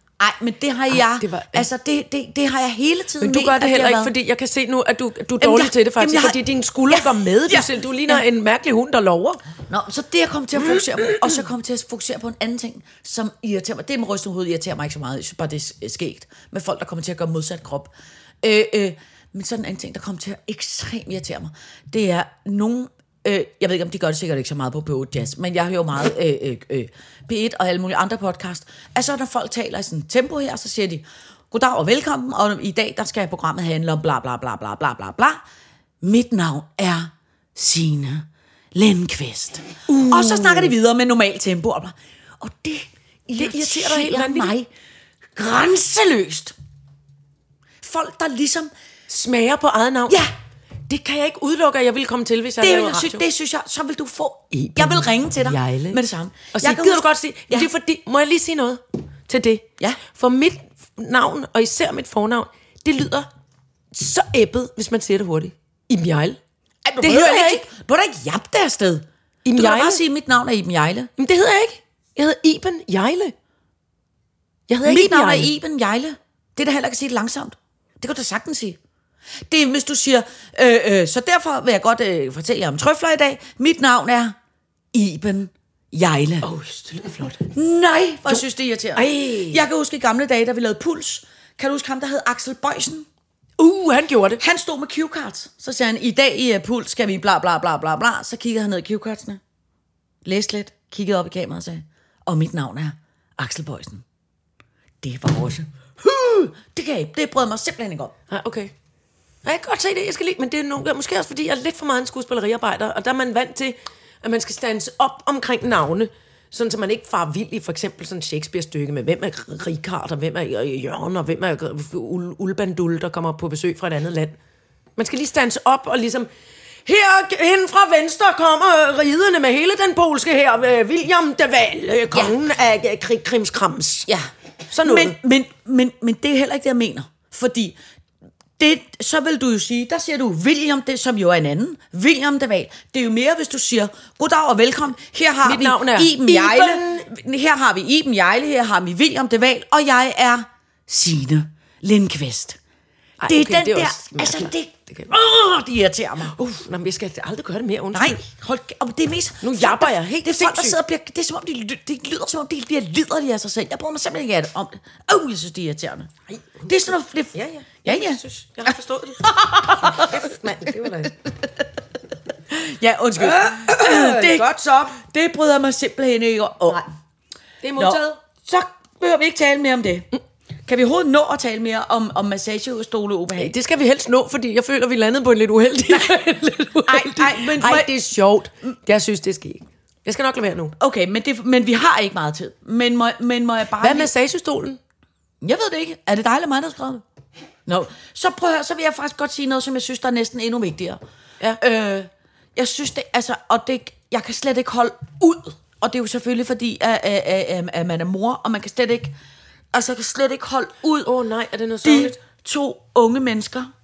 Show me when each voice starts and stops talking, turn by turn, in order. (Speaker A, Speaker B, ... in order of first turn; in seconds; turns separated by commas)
Speaker A: 0.2-4.1, Speaker B: 0.9-1.7, Speaker B: 3.2-9.4, Speaker A: 5.4-8.2, Speaker A: 9.7-17.9, Speaker B: 10.6-11.3, Speaker A: 18.4-35.4, Speaker A: 36.0-44.7, Speaker B: 39.9-40.7, Speaker B: 43.4-44.5, Speaker A: 45.4-46.5, Speaker A: 47.8-48.7, Speaker B: 49.1-50.2, Speaker B: 50.9-53.2, Speaker A: 52.6-57.7, Speaker B: 54.5-56.0, Speaker B: 56.5-63.3, Speaker B: 63.9-66.4, Speaker A: 66.8-71.1, Speaker B: 67.0-67.7, Speaker B: 69.4-70.0, Speaker B: 71.2-73.3, Speaker B: 74.7-75.5, Speaker A: 74.8-78.8, Speaker A: 79.5-84.3, Speaker A: 84.9-86.5, Speaker B: 86.4-87.5, Speaker A: 87.4-93.1, Speaker B: 88.9-89.7, Speaker B: 93.6-94.4, Speaker A: 94.4-99.4, Speaker A: 100.2-104.0, Speaker A: 105.0-108.1, Speaker B: 108.3-108.7, Speaker B: 109.4-124.4, Speaker B: 125.0-126.3, Speaker B: 126.8-134.1, Speaker B: 134.7-135.2, Speaker A: 134.8-137.8, Speaker A: 138.6-152.6, Speaker B: 145.4-147.1, Speaker B: 153.2-155.1, Speaker A: 153.2-156.3, Speaker B: 156.3-158.2, Speaker A: 157.9-166.1, Speaker B: 159.4-160.8, Speaker B: 166.3-171.1, Speaker A: 166.6-168.2, Speaker A: 169.2-170.3, Speaker A: 172.5-176.9, Speaker B: 173.2-174.5, Speaker B: 177.6-178.2, Speaker A: 177.8-180.1, Speaker A: 180.7-183.5, Speaker B: 183.3-190.7, Speaker A: 186.8-187.9, Speaker A: 190.8-194.1, Speaker B: 193.8-194.8, Speaker A: 195.4-197.0, Speaker A: 197.7-201.0, Speaker A: 201.6-209.1, Speaker A: 209.7-211.1, Speaker B: 211.0-212.2, Speaker A: 211.8-213.7